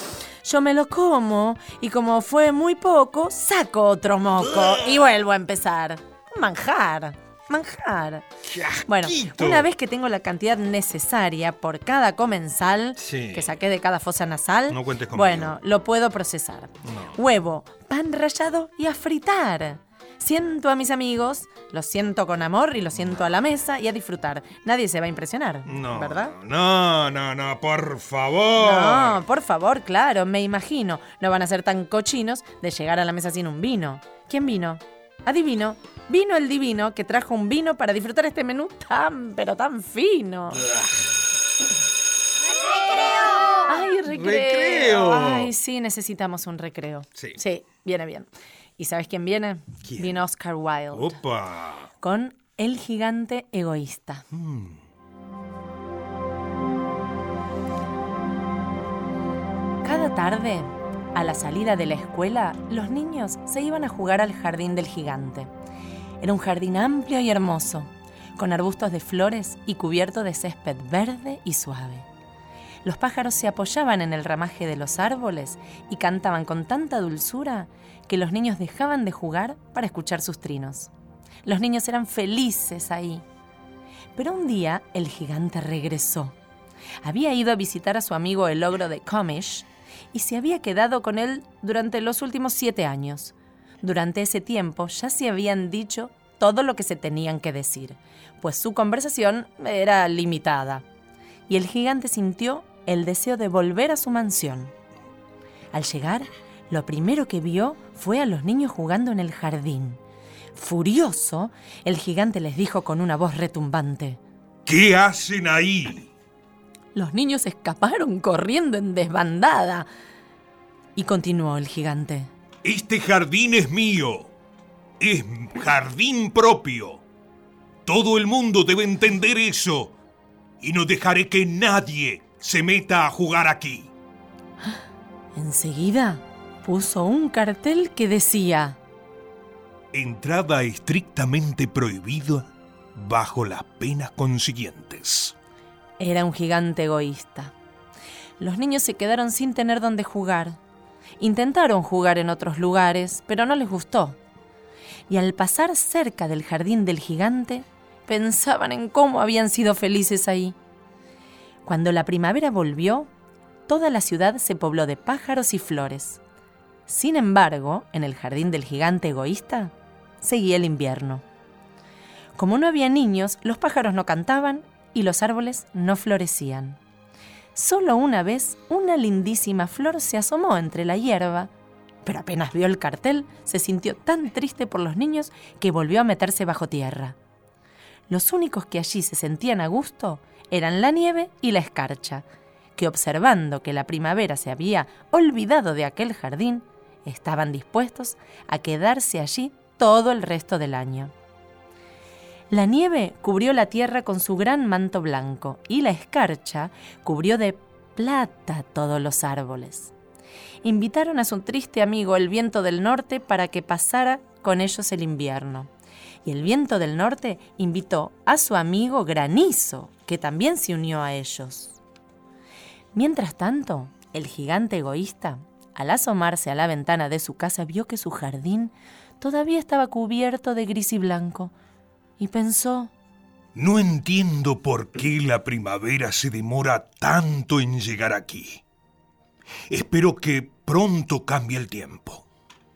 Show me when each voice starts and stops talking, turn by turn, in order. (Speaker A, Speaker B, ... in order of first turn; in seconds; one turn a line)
Speaker A: 0.4-8.2
Speaker B: 4.5-4.9
Speaker B: 8.4-9.7
Speaker A: 8.9-26.3
Speaker B: 13.0-13.6
Speaker B: 14.7-15.6
Speaker B: 16.9-17.2
Speaker B: 22.9-23.3
Speaker B: 25.7-29.2
Speaker A: 28.6-40.6
Speaker B: 40.6-40.9
Speaker A: 43.7-51.2
Speaker B: 44.1-45.5
Speaker B: 49.9-50.2
Speaker B: 50.9-51.9
Speaker A: 52.0-54.2
Speaker B: 54.3-54.8
Speaker A: 59.8-65.5
Speaker A: 66.2-72.1
Speaker A: 72.8-80.9
Speaker A: 81.5-83.2
Speaker A: 84.2-86.3
Speaker A: 87.0-100.8
Speaker A: 101.5-104.7
Speaker A: 105.7-110.0
Speaker A: 110.6-114.2
Speaker B: 114.7-116.1
Speaker A: 117.0-119.9
Speaker A: 121.0-122.3
Speaker B: 122.6-124.3
Speaker B: 125.0-127.0
Speaker B: 127.8-129.9
Speaker B: 130.6-133.9
Speaker A: 135.3-138.8
Speaker B: 139.9-145.3
Speaker A: 146.0-147.5
Speaker A: 148.4-150.6
Speaker A: 151.2-154.2
Speaker A: 155.1-160.6
Speaker A: 161.7-163.1
Speaker A: 163.7-166.2
Speaker A: 166.9-171.2
Speaker A: 172.4-176.8
Speaker A: 177.6-181.5
Speaker A: 182.1-187.1
Speaker A: 188.1-192.2
Speaker A: 192.8-201.1
Speaker A: 202.5-209.9
Speaker A: 210.6-215.7
Speaker A: 216.2-221.8
Speaker A: 222.9-231.5
Speaker A: 232.2-232.9
Speaker B: 233.6-238.6
Speaker B: 239.7-242.2